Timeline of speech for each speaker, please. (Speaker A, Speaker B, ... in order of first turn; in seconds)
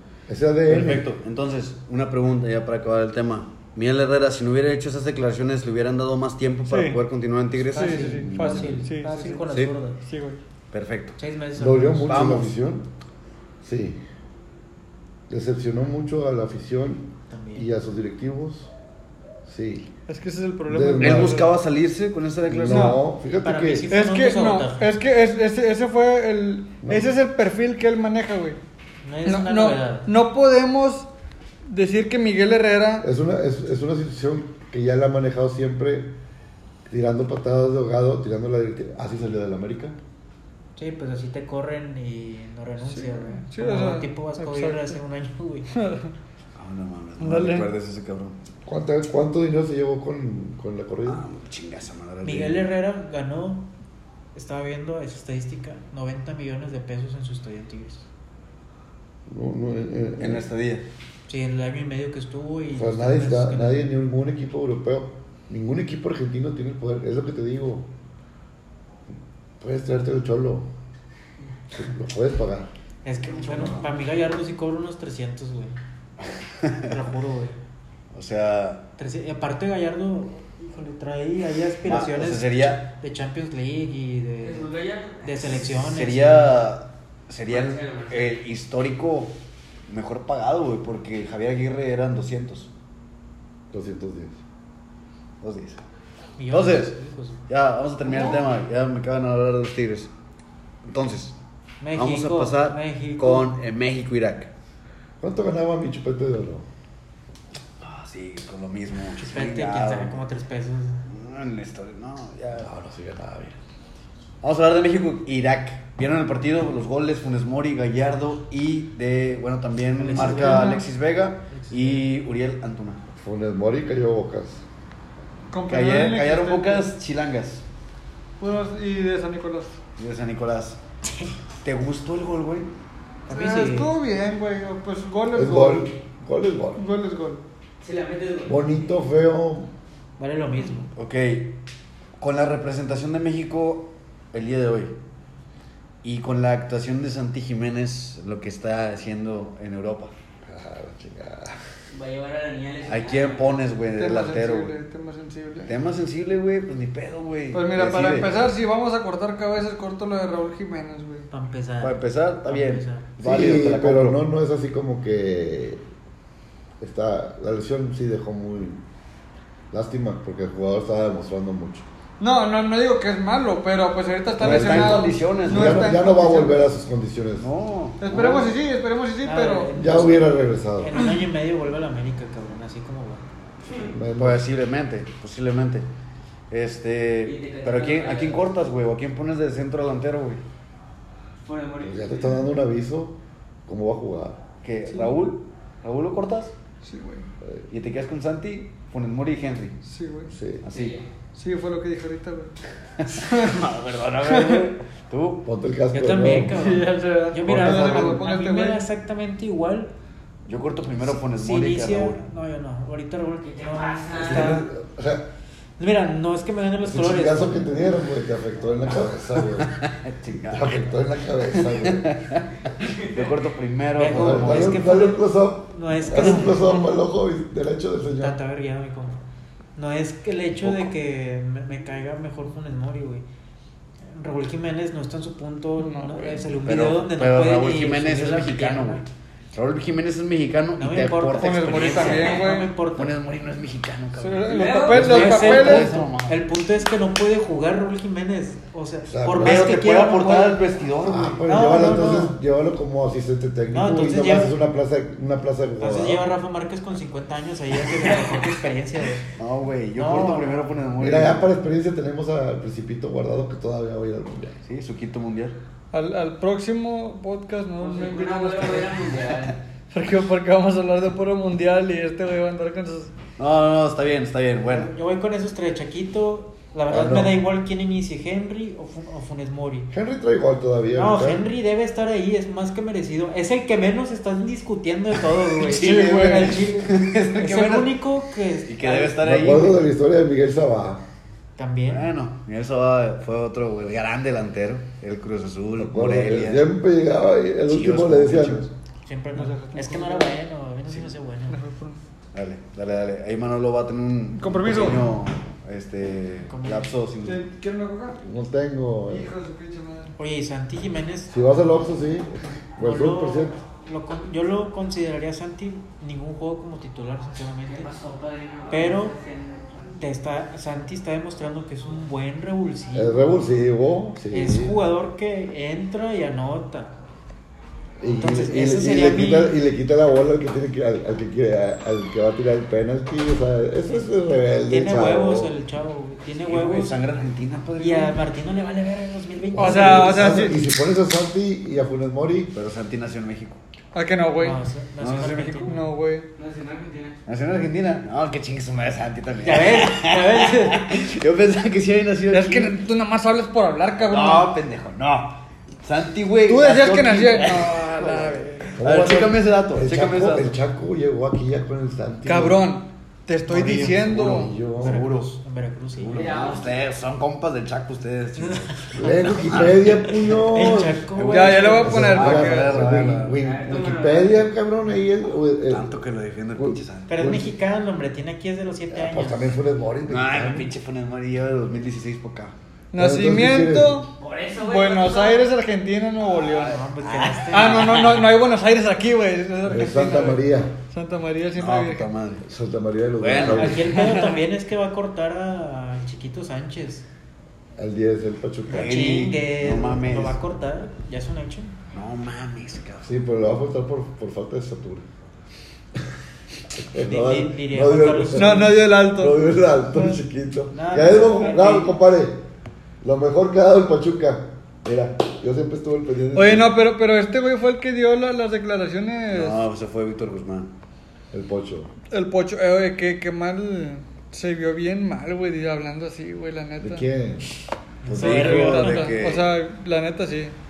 Speaker A: 0.3-1.1, 11.6-12.9, 13.6-14.0, 15.3-18.7, 19.4-19.9, 20.6-21.4, 22.4-23.9, 26.8-27.1, 33.0-36.1, 36.9-40.0, 48.6-51.2, 59.3-60.5, 62.7-67.9, 69.6-70.7, 71.7-72.7, 93.7-94.4, 105.2-106.7, 112.5-113.5, 123.2-124.6, 135.3-136.8, 138.4-139.7, 150.4-151.7, 163.2-165.8, 166.8-168.8, 169.7-171.8, 174.4-177.5, 179.8-180.9, 183.8-184.4, 191.8-194.4, 200.3-200.6, 205.4-206.6, 207.5-208.1, 214.1-215.3, 216.8-219.7, 220.5-222.1, 224.1-228.4, 249.1-249.8, 251.0-256.3, 261.0-264.6, 276.9-277.4, 279.9-281.5, 289.2-291.0, 295.8-298.7, 308.2-309.3, 311.3-313.6, 322.9-324.8, 328.0-335.5, 339.5-342.5, 358.8-362.7, 364.0-365.0, 368.9-375.9, 376.5-377.5, 378.9-380.7, 382.9-384.0, 389.6-390.7, 392.4-393.9, 397.8-399.2, 403.0-405.0, 406.8-412.4, 413.0-416.7, 421.3-421.9, 426.8-427.5
Speaker B: 0.7-8.8, 10.7-11.2, 12.1-12.5, 21.0-23.0, 46.5-48.4, 51.0-52.7, 60.2-60.8, 78.1-78.8, 81.8-82.8, 85.7-89.3, 89.9-92.7, 95.4-95.8, 96.5-100.1, 100.8-101.4, 101.9-104.5, 107.8-110.2, 111.0-112.7, 114.4-123.0, 125.7-127.6, 130.0-130.8, 131.6-132.7, 140.9-141.5, 142.2-144.9, 146.0-150.1, 152.8-154.7, 155.7-158.3, 161.8-164.2, 174.4-176.0, 177.4-178.5, 184.2-185.9, 186.5-190.4, 194.6-196.5, 197.7-199.8, 200.6-201.0, 203.0-205.4, 210.5-212.2, 219.6-220.8, 221.5-224.9, 230.6-230.9, 236.6-242.4, 242.9-246.4, 249.4-251.4, 259.4-261.5, 264.6-265.6, 273.4-274.9, 285.6-288.0, 288.6-289.8, 291.9-296.6, 297.7-298.7, 302.3-307.4, 336.4-338.2, 342.5-343.6, 345.0-345.8, 347.2-352.8, 354.1-360.5, 363.5-365.4, 366.0-370.4, 371.2-373.4, 375.6-377.3, 380.1-382.6, 386.2-388.3, 391.6-392.4, 393.2-394.1, 398.7-400.4, 401.9-403.1, 419.3-420.7, 428.1-429.5
Speaker C: 6.7-7.0, 7.7-9.4, 10.0-10.4, 20.1-21.6, 22.6-23.0, 23.9-28.6, 29.2-31.1, 31.6-33.1, 42.9-45.0, 45.7-46.1, 47.2-47.7, 120.1-120.8, 125.5-126.9, 128.4-129.8, 133.3-135.9, 136.8-137.4, 153.9-155.8, 157.5-161.3, 172.2-176.7, 178.0-179.7, 196.8-197.3, 199.8-200.3, 201.3-202.5, 203.2-203.6, 204.2-204.7, 206.4-208.8, 226.5-226.9, 235.8-236.5, 241.4-242.7, 244.2-245.9, 265.9-269.1, 269.9-273.1, 285.6-286.7, 299.3-300.3, 301.5-302.0, 304.3-305.1, 307.2-308.2, 309.1-310.1, 339.6-340.6, 343.9-344.6, 345.6-346.3, 352.3-354.5, 356.4-358.8, 362.2-364.5, 371.3-373.0, 382.9-386.8, 387.5-392.1, 394.0-394.4, 408.3-410.2, 416.3-419.6, 422.1-427.1, 428.1-430.5
Speaker D: 7.5-10.0, 11.2-12.2, 17.3-17.7, 23.4-24.9, 29.0-30.1, 40.8-45.7, 52.2-53.7, 54.3-58.0, 61.3-63.9, 73.0-75.8, 76.8-77.6, 79.0-84.7, 85.2-86.6, 96.4-97.5, 101.8-103.5, 109.2-111.0, 120.0-120.8, 121.5-122.0, 133.3-133.9, 140.2-140.9, 161.3-163.1, 179.2-183.2, 205.9-209.9, 211.0-214.7, 215.8-217.8, 223.9-226.7, 228.2-229.2, 229.8-233.2, 234.1-239.0, 240.8-243.1, 244.9-250.6, 251.4-252.3, 253.7-254.6, 255.8-259.3, 259.9-260.6, 274.7-279.9, 280.9-289.4, 291.6-292.1, 299.0-301.6, 306.4-306.9, 310.2-311.3, 312.8-317.9, 318.7-319.2, 319.9-323.4, 324.3-327.0, 328.1-329.6, 334.7-337.0, 337.8-340.5, 344.4-345.8, 349.4-350.9, 364.8-366.3, 368.4-369.2, 370.4-372.1, 377.1-379.5, 386.6-388.0, 393.4-397.0, 398.7-401.8, 406.9-408.8, 410.7-411.9, 428.0-429.1
Speaker E: 84.4-85.5, 87.5-88.4, 137.8-138.9, 151.9-153.6, 183.6-183.9, 187.2-188.5, 191.4-192.5, 200.7-201.1, 213.4-214.6, 222.8-223.4, 242.1-242.4, 244.5-245.5, 267.8-269.6, 317.7-319.9, 346.4-347.2, 366.1-366.8, 373.4-374.5, 384.2-385.4